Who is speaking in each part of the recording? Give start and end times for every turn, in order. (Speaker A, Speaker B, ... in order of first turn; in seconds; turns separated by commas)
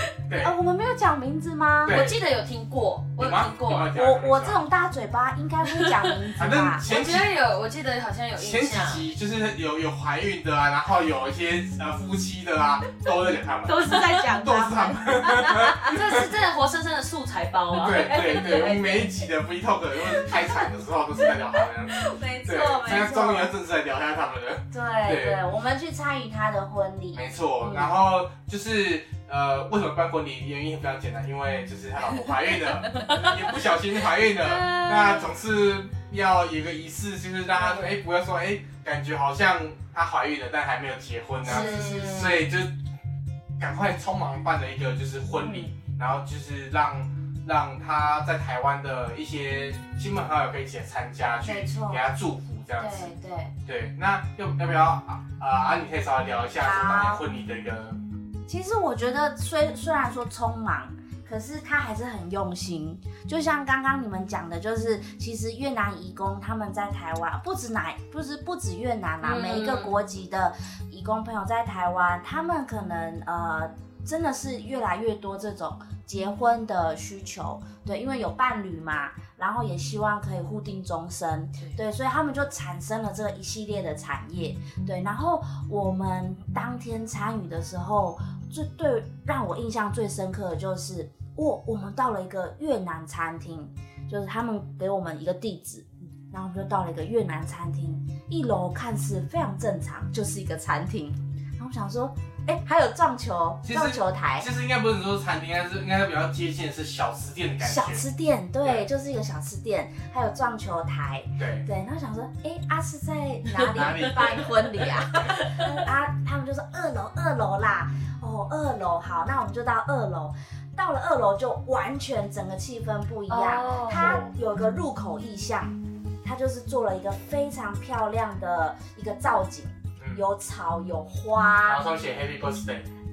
Speaker A: 0.3-0.6, Speaker B: 0.4-2.0, Speaker A: 1.8-2.2, Speaker C: 1.9-3.9, Speaker A: 3.2-4.6, Speaker B: 3.9-6.8, Speaker C: 5.8-6.1, Speaker A: 6.4-7.3, Speaker C: 6.8-9.1, Speaker A: 8.3-16.3, Speaker B: 13.6-15.9, Speaker C: 15.8-19.1, Speaker A: 17.8-25.4, Speaker B: 21.9-23.5, Speaker B: 24.7-27.2, Speaker A: 27.1-42.7, Speaker C: 32.9-33.3, Speaker C: 34.4-35.2, Speaker C: 37.6-37.9, Speaker C: 41.4-42.4, Speaker B: 41.5-42.3, Speaker A: 43.6-53.1, Speaker B: 51.4-52.0, Speaker B: 52.8-53.5, Speaker A: 53.6-58.0, Speaker B: 56.6-57.2, Speaker B: 58.5-104.5, Speaker C: 69.2-69.9, Speaker A: 103.6-108.0, Speaker B: 107.6-131.8, Speaker A: 111.4-111.7, Speaker A: 113.7-114.7, Speaker C: 115.1-115.8, Speaker C: 123.3-124.2, Speaker A: 123.9-124.3, Speaker A: 131.6-132.9